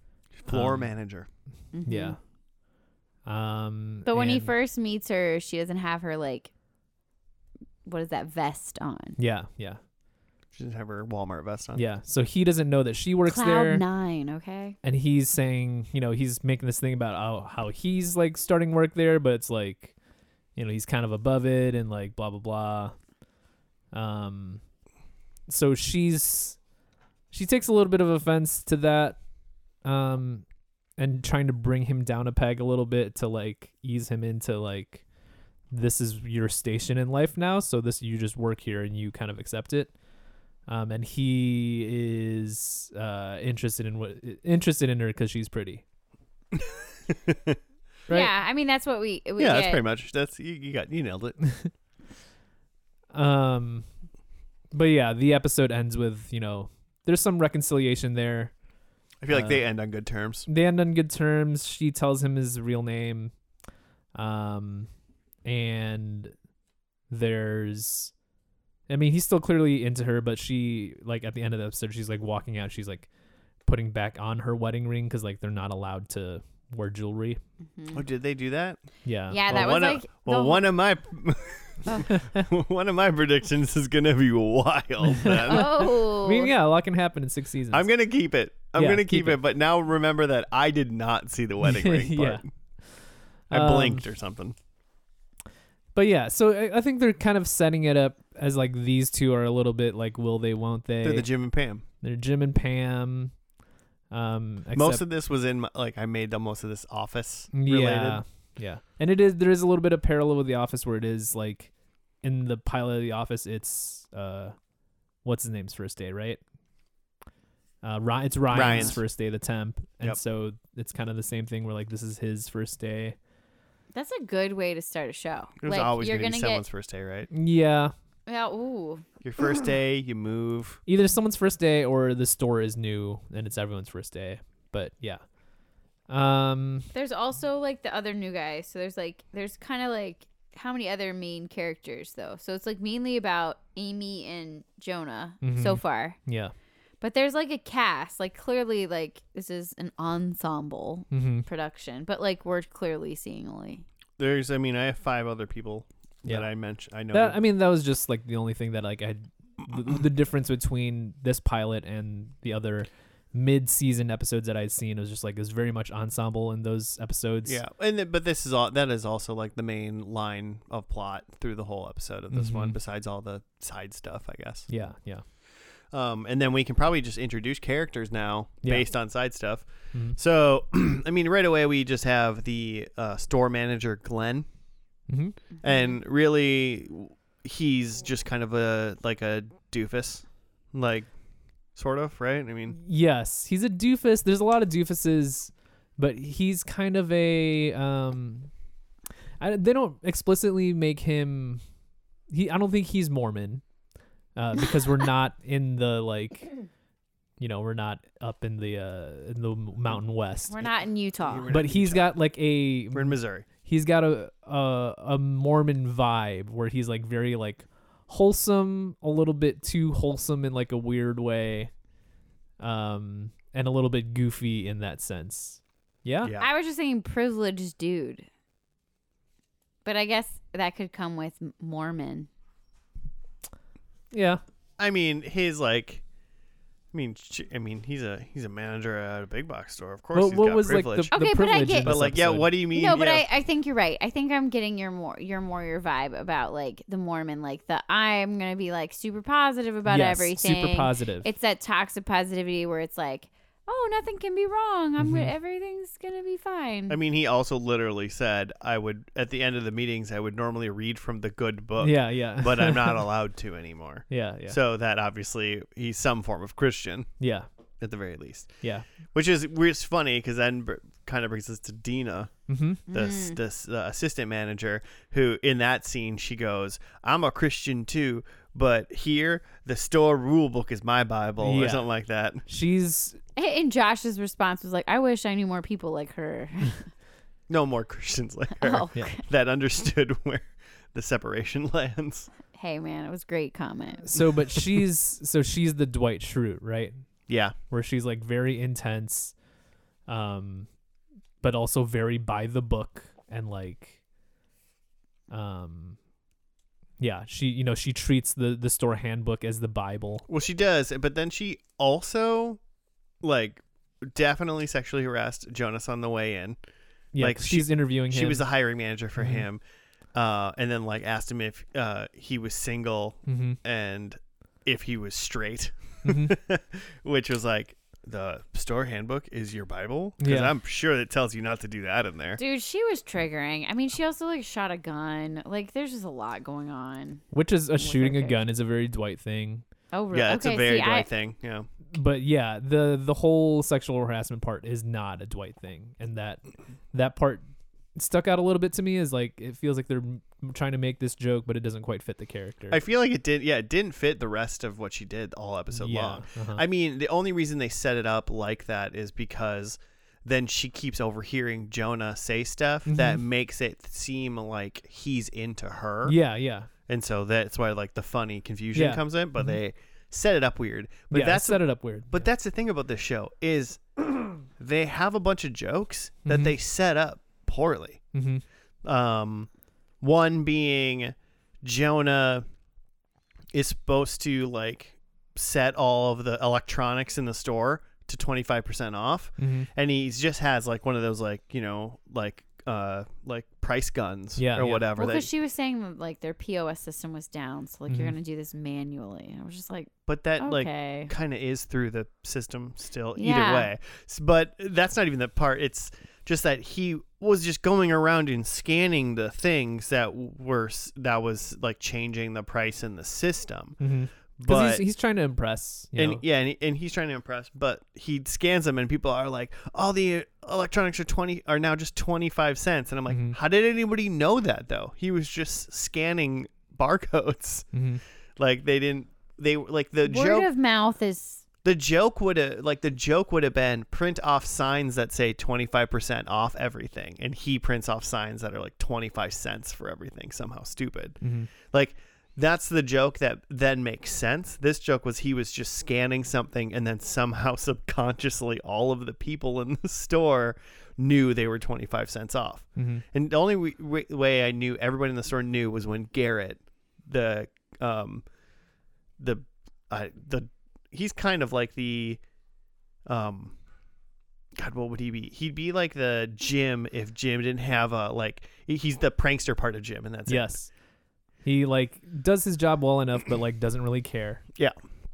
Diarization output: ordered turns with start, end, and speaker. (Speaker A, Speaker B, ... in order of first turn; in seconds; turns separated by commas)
Speaker A: 0.4-1.3, Speaker B: 0.5-0.9, Speaker C: 1.7-2.2, Speaker B: 1.8-2.2, Speaker B: 3.2-4.5, Speaker C: 4.0-6.5, Speaker C: 7.8-9.2, Speaker B: 9.2-9.8, Speaker A: 10.5-11.8, Speaker B: 11.8-13.8, Speaker C: 13.2-14.8, Speaker B: 14.8-19.9, Speaker B: 20.6-22.9, Speaker B: 23.9-24.6, Speaker B: 25.5-26.6, Speaker B: 27.3-29.2, Speaker B: 29.8-30.4, Speaker B: 31.0-35.0, Speaker B: 35.7-39.9, Speaker B: 40.7-45.8, Speaker A: 46.5-47.6, Speaker C: 48.1-49.8, Speaker A: 49.4-51.5, Speaker B: 53.1-53.9, Speaker B: 54.7-58.5, Speaker A: 59.2-60.5, Speaker B: 59.3-59.6, Speaker B: 60.5-63.3, Speaker B: 64.1-64.9, Speaker B: 65.4-66.3, Speaker B: 67.1-68.1, Speaker B: 68.9-73.1, Speaker B: 73.6-77.4, Speaker C: 77.7-78.0, Speaker A: 77.9-78.8, Speaker B: 79.0-79.5, Speaker C: 79.3-80.7, Speaker A: 79.5-85.9, Speaker B: 82.1-82.4, Speaker B: 85.0-87.9, Speaker C: 85.5-86.5, Speaker A: 87.7-92.4, Speaker B: 88.7-89.4, Speaker B: 91.6-94.0, Speaker A: 93.5-94.5, Speaker B: 95.9-101.4, Speaker A: 101.0-101.8, Speaker B: 102.0-103.3, Speaker B: 104.1-105.0, Speaker A: 104.7-108.2, Speaker B: 107.5-114.5, Speaker B: 115.2-116.4, Speaker B: 117.8-123.2, Speaker A: 118.5-119.0, Speaker C: 123.9-126.6, Speaker A: 125.6-127.3, Speaker B: 127.3-127.9, Speaker C: 128.3-129.0, Speaker A: 129.2-130.8, Speaker B: 130.9-135.2, Speaker B: 136.1-136.9, Speaker C: 136.9-146.2, Speaker B: 145.4-146.5, Speaker C: 147.0-153.8, Speaker B: 151.1-151.5, Speaker A: 154.2-157.4, Speaker B: 157.1-167.6, Speaker A: 167.4-174.7, Speaker B: 172.3-172.8, Speaker B: 174.7-175.2, Speaker A: 175.9-184.5, Speaker B: 178.6-178.9, Speaker B: 185.1-185.4, Speaker A: 185.6-191.1, Speaker C: 185.6-185.9, Speaker A: 191.7-192.8, Speaker B: 192.8-198.5, Speaker B: 199.4-201.6, Speaker B: 202.3-203.6, Speaker B: 204.3-206.5, Speaker B: 207.4-210.6, Speaker C: 210.5-211.5, Speaker A: 211.2-212.1, Speaker B: 211.5-221.7, Speaker A: 212.9-213.5, Speaker B: 222.6-226.3, Speaker C: 226.4-228.3, Speaker C: 229.8-232.3, Speaker B: 234.1-234.4, Speaker A: 234.8-236.0, Speaker A: 236.9-241.2, Speaker B: 240.1-242.5, Speaker C: 241.1-242.0, Speaker A: 241.8-243.2, Speaker C: 242.7-256.9, Speaker B: 249.9-251.3, Speaker B: 255.0-255.3, Speaker A: 256.9-267.1, Speaker B: 261.8-263.0, Speaker B: 264.1-264.6, Speaker B: 267.2-267.5, Speaker A: 267.8-272.3, Speaker B: 272.5-272.8, Speaker C: 272.9-273.4, Speaker A: 272.9-282.4, Speaker B: 281.4-281.9, Speaker B: 282.4-283.2, Speaker C: 283.4-286.9, Speaker A: 287.5-292.3, Speaker C: 288.6-289.2, Speaker C: 292.5-294.1, Speaker B: 294.0-297.1, Speaker A: 297.3-297.5, Speaker B: 297.7-299.3, Speaker B: 300.1-300.7, Speaker B: 301.4-304.0, Speaker B: 305.3-306.0, Speaker B: 307.0-310.3, Speaker A: 310.3-312.6, Speaker A: 313.2-316.6, Speaker B: 317.1-318.4, Speaker A: 317.2-319.6, Speaker B: 319.2-319.4, Speaker A: 320.1-332.4, Speaker B: 323.3-323.6, Speaker B: 326.0-326.3, Speaker B: 330.2-330.5, Speaker C: 332.4-337.2, Speaker B: 337.3-339.6, Speaker C: 337.8-338.4, Speaker C: 339.9-341.1, Speaker A: 340.1-341.7, Speaker B: 341.9-347.4, Speaker B: 347.9-352.8, Speaker A: 352.7-366.2, Speaker B: 355.7-356.6, Speaker B: 362.9-363.2, Speaker B: 366.0-366.7, Speaker A: 366.9-378.0, Speaker B: 368.7-369.6, Speaker B: 371.1-372.3, Speaker B: 376.2-376.5, Speaker B: 378.1-378.4, Speaker A: 378.8-379.5, Speaker A: 380.0-382.4, Speaker A: 383.5-395.3, Speaker B: 389.4-389.7, Speaker B: 394.4-394.9, Speaker C: 394.9-401.1, Speaker B: 397.9-398.1, Speaker A: 400.1-413.8, Speaker C: 403.1-403.7, Speaker B: 413.8-416.2, Speaker A: 414.4-414.8, Speaker A: 415.9-427.7, Speaker B: 423.1-423.4, Speaker B: 427.7-428.0, Speaker A: 428.4-430.5, Speaker C: 430.0-431.4, Speaker A: 431.6-458.2, Speaker B: 441.2-441.5, Speaker B: 452.8-453.0, Speaker A: 459.2-462.2, Speaker A: 463.1-463.6, Speaker A: 464.6-470.6, Speaker B: 470.3-470.7, Speaker B: 471.4-474.4